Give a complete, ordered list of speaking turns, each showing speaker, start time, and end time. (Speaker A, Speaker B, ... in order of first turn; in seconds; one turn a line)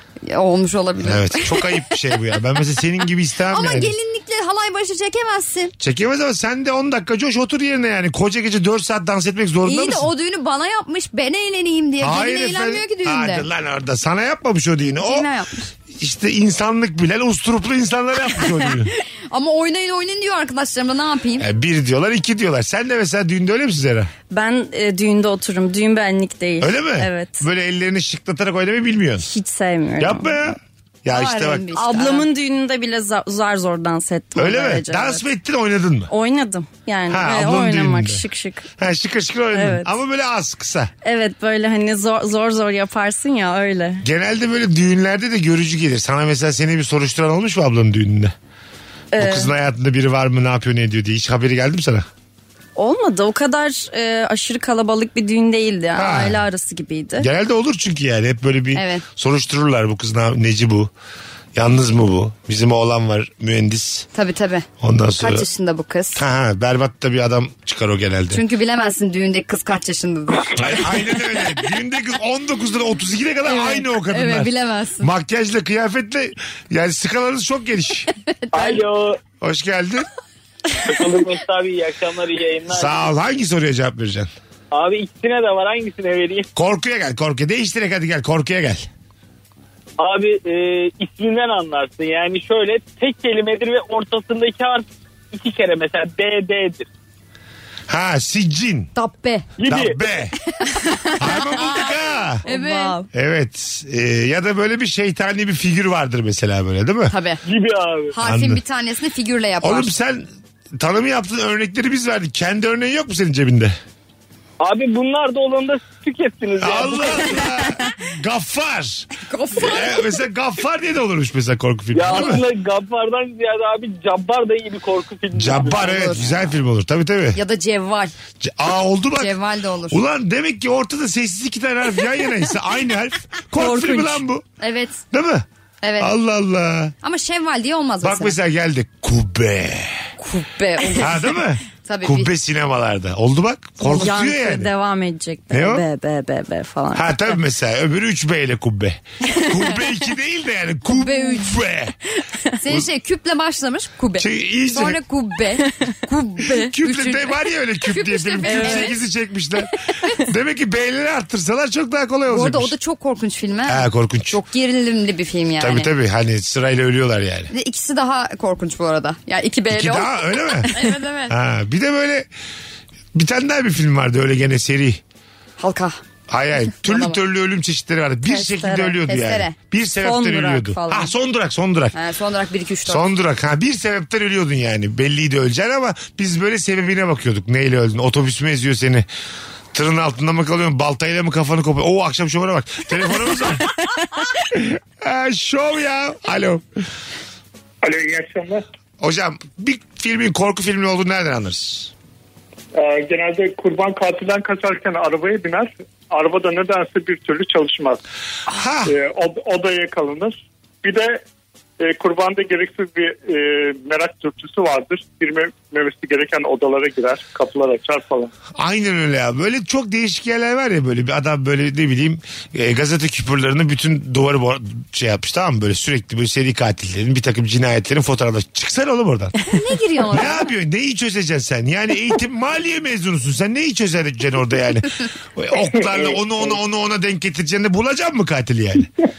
Speaker A: 0.3-1.8
Speaker B: 1.0-3.9
Speaker A: 3.5-5.7
Speaker B: 5.8-10.1
Speaker A: 9.6-13.4
Speaker B: 12.0-15.3
Speaker A: 15.0-15.7
Speaker B: 15.9-18.9
Speaker A: 19.3-21.4
Speaker B: 21.4-24.1
Speaker C: 24.3-27.4
Speaker B: 26.6-29.2
Speaker C: 29.2-30.4
Speaker B: 30.0-31.7
Speaker A: 31.1-32.3
Speaker C: 31.7-35.2
Speaker B: 34.4-36.1
Speaker C: 36.1-38.7
Speaker B: 37.1-38.2
Speaker B: 38.8-40.9
Speaker C: 39.5-39.9
Speaker C: 41.0-44.0
Speaker B: 44.0-48.3
Speaker C: 49.1-49.5
Speaker B: 49.1-52.0
Speaker C: 52.8-57.3
Speaker B: 56.0-56.4
Speaker B: 57.2-60.9
Speaker A: 58.7-59.0
Speaker B: 61.5-64.1
Speaker A: 64.1-64.7
Speaker B: 64.8-65.5
Speaker A: 65.2-66.2
Speaker B: 66.2-68.4
Speaker A: 68.3-70.8
Speaker B: 70.5-78.1
Speaker A: 73.4-75.1
Speaker A: 78.4-78.8
Speaker D: 78.5-79.2
Speaker B: 79.4-80.1
Speaker D: 80.8-83.1
Speaker B: 82.7-84.3
Speaker D: 84.7-86.5
Speaker B: 86.5-88.9
Speaker D: 90.0-96.9
Speaker B: 97.9-98.9
Speaker A: 98.9-99.5
Speaker D: 99.6-100.0
Speaker B: 99.7-100.3
Speaker A: 100.6-101.9
Speaker B: 101.2-102.4
Speaker A: 102.4-103.0
Speaker C: 102.5-103.0
Speaker B: 103.1-107.1
Speaker A: 107.1-107.4
Speaker D: 107.4-108.1
Speaker A: 108.1-109.9
Speaker B: 108.2-108.6
Speaker B: 109.6-113.8
Speaker D: 114.6-117.7
Speaker B: 116.6-122.4
Speaker A: 119.2-120.1
Speaker D: 121.9-126.1
Speaker A: 122.1-122.4
Speaker B: 125.3-127.4
Speaker A: 125.5-126.3
Speaker A: 127.3-128.1
Speaker B: 128.4-129.3
Speaker A: 129.2-130.0
Speaker B: 129.9-134.4
Speaker C: 133.6-134.2
Speaker A: 134.6-135.0
Speaker B: 135.1-135.4
Speaker A: 135.8-136.1
Speaker B: 136.0-136.9
Speaker A: 137.0-138.3
Speaker B: 138.0-140.1
Speaker A: 140.2-142.3
Speaker B: 141.0-144.7
Speaker C: 143.8-147.4
Speaker B: 145.5-145.8
Speaker B: 146.9-151.9
Speaker A: 150.9-151.6
Speaker A: 152.6-158.9
Speaker B: 154.2-155.0
Speaker B: 156.5-162.7
Speaker C: 158.4-158.9
Speaker A: 162.3-165.9
Speaker B: 163.7-164.4
Speaker B: 165.6-167.5
Speaker A: 167.5-171.3
Speaker B: 169.7-172.3
Speaker B: 173.1-175.0
Speaker A: 175.6-176.0
Speaker B: 176.3-181.9
Speaker A: 176.8-177.2
Speaker C: 178.3-178.9
Speaker A: 178.8-179.5
Speaker C: 180.0-181.1
Speaker A: 181.9-183.1
Speaker B: 182.8-189.1
Speaker B: 189.7-193.7
Speaker B: 194.4-196.6
Speaker E: 197.8-198.6
Speaker B: 199.0-201.9
Speaker E: 202.7-208.0
Speaker B: 208.5-208.9
Speaker E: 208.8-211.2
Speaker E: 211.8-218.3
Speaker B: 218.5-229.4
Speaker A: 229.5-230.5
Speaker B: 230.1-238.9